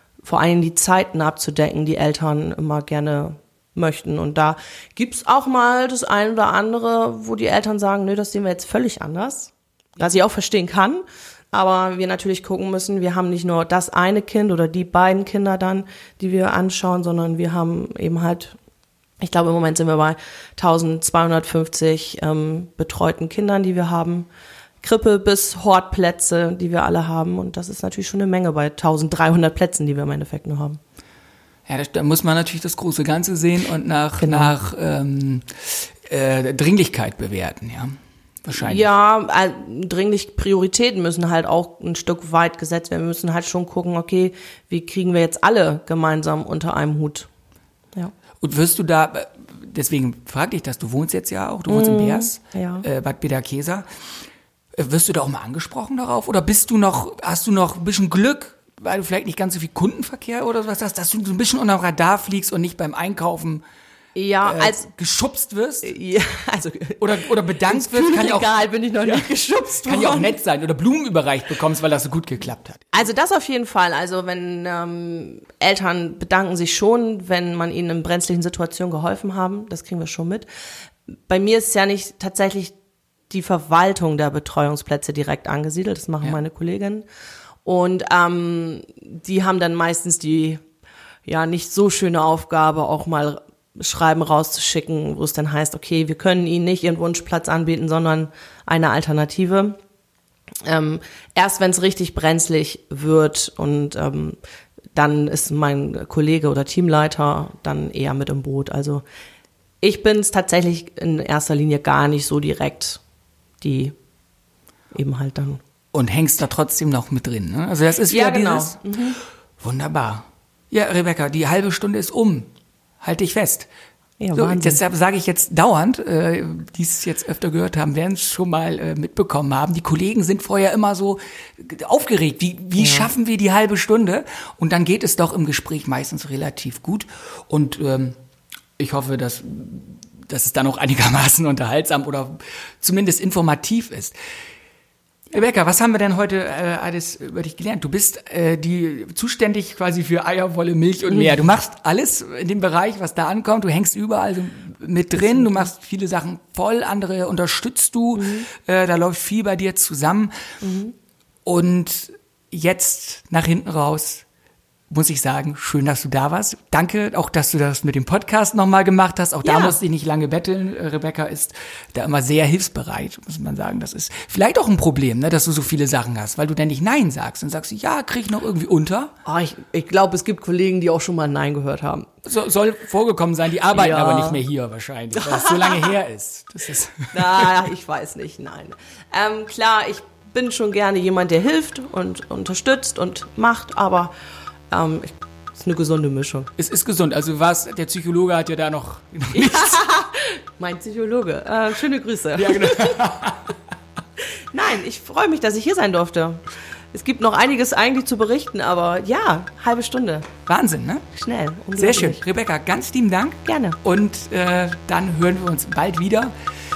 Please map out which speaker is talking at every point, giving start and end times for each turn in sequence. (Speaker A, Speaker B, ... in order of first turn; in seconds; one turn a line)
Speaker A: 0.2-18.6
Speaker A: 19.2-24.3
Speaker A: 24.8-30.8
Speaker B: 31.7-38.9
Speaker A: 34.2-34.5
Speaker A: 38.5-47.3
Speaker B: 48.4-53.9
Speaker A: 51.7-52.9
Speaker B: 54.8-63.6
Speaker A: 64.2-64.8
Speaker B: 64.4-66.0
Speaker A: 65.8-70.3
Speaker B: 67.0-69.3
Speaker B: 69.8-72.9
Speaker A: 72.9-80.5
Speaker A: 81.3-82.8
Speaker A: 83.3-87.0
Speaker A: 87.7-90.6
Speaker A: 91.3-99.8
Speaker A: 100.7-104.4
Speaker A: 105.0-109.0
Speaker A: 109.8-113.0
Speaker A: 113.6-114.0
Speaker A: 114.9-115.6
Speaker B: 115.9-119.0
Speaker A: 118.1-119.2
Speaker B: 119.6-122.5
Speaker B: 123.0-123.7
Speaker A: 124.2-124.8
Speaker B: 124.3-138.2
Speaker A: 132.8-133.1
Speaker B: 138.8-144.2
Speaker B: 145.3-160.5
Speaker A: 155.2-155.7
Speaker A: 158.2-158.5
Speaker A: 160.6-160.9
Speaker B: 161.4-164.2
Speaker B: 164.9-179.1
Speaker A: 169.4-169.8
Speaker A: 179.3-182.1
Speaker B: 182.3-187.6
Speaker A: 183.7-184.4
Speaker A: 185.2-185.9
Speaker A: 187.1-194.1
Speaker A: 194.7-196.5
Speaker B: 196.6-199.9
Speaker A: 199.3-203.0
Speaker B: 202.4-203.6
Speaker A: 204.5-210.3
Speaker B: 210.5-211.1
Speaker A: 211.1-212.2
Speaker B: 211.8-216.3
Speaker A: 213.5-213.8